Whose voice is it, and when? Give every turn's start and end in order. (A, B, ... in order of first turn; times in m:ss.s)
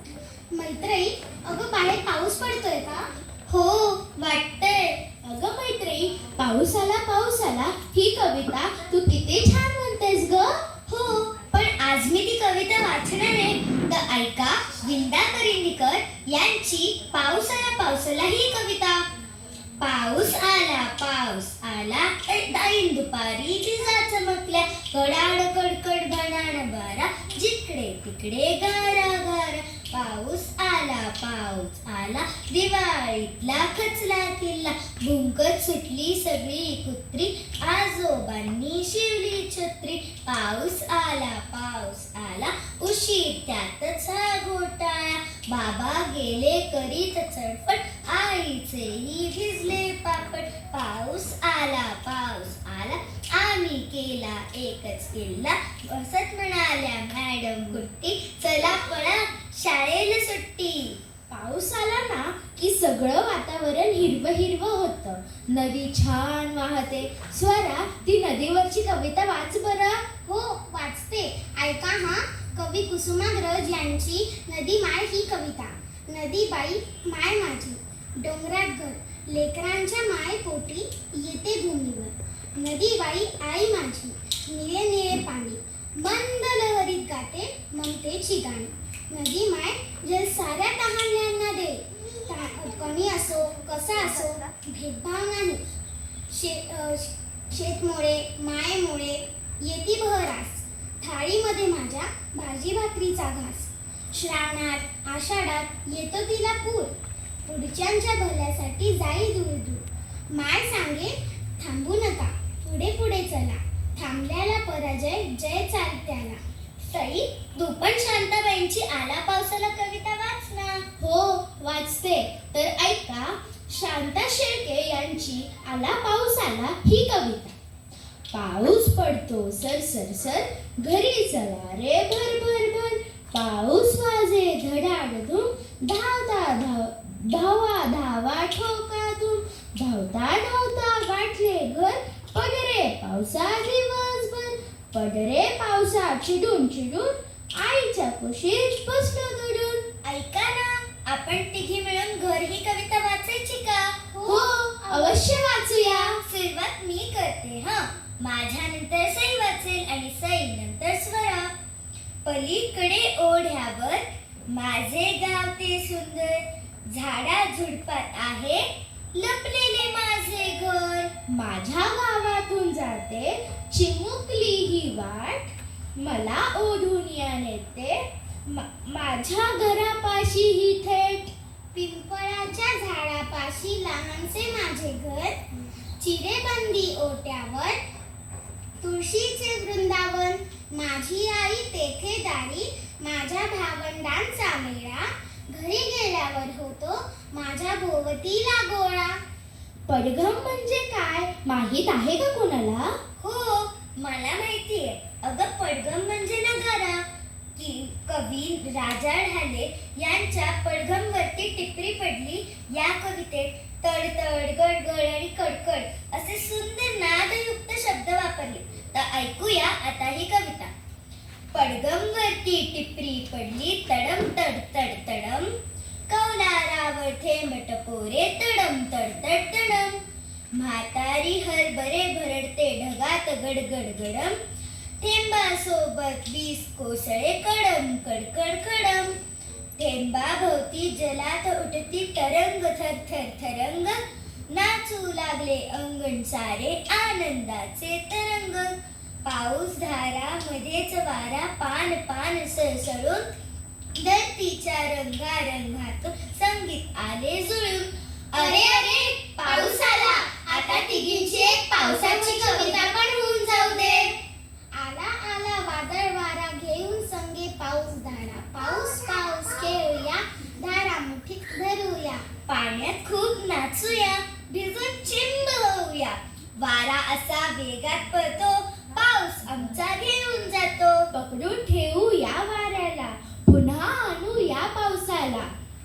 0:00.5-0:03.1 A
0:03.5-0:05.0 B
0:05.2-0:10.6 C
0:10.9-0:19.0 B
0:19.8-1:01.0 B
1:01.3-1:10.0 C
1:10.2-1:35.6 A
1:36.3-1:46.9 A
1:47.4-1:56.4 A
1:56.8-2:00.8 B
2:01.0-2:07.5 C
2:08.3-2:29.8 C
2:30.0-2:34.1 B
2:34.1-2:35.2 A
2:34.3-2:36.2 C
2:35.3-2:41.5 B
2:42.2-2:51.1 B
2:51.3-3:01.3 C
3:01.7-3:05.4 A
3:06.0-3:07.8 A
3:08.8-3:19.2 A
3:19.9-3:23.0 C
3:23.2-3:27.0 B
3:27.6-3:40.7 B
3:41.5-3:45.5 B
3:46.1-3:50.0 B
3:50.6-3:54.4 B
3:55.0-3:59.2 B
3:59.8-4:04.0 B
4:04.5-4:08.7 B
4:09.2-4:13.3 B
4:14.0-4:22.9 B
4:18.4-4:24.2 A
4:24.8-4:32.3 A
4:32.5-4:41.1 B
4:41.1-4:45.5 C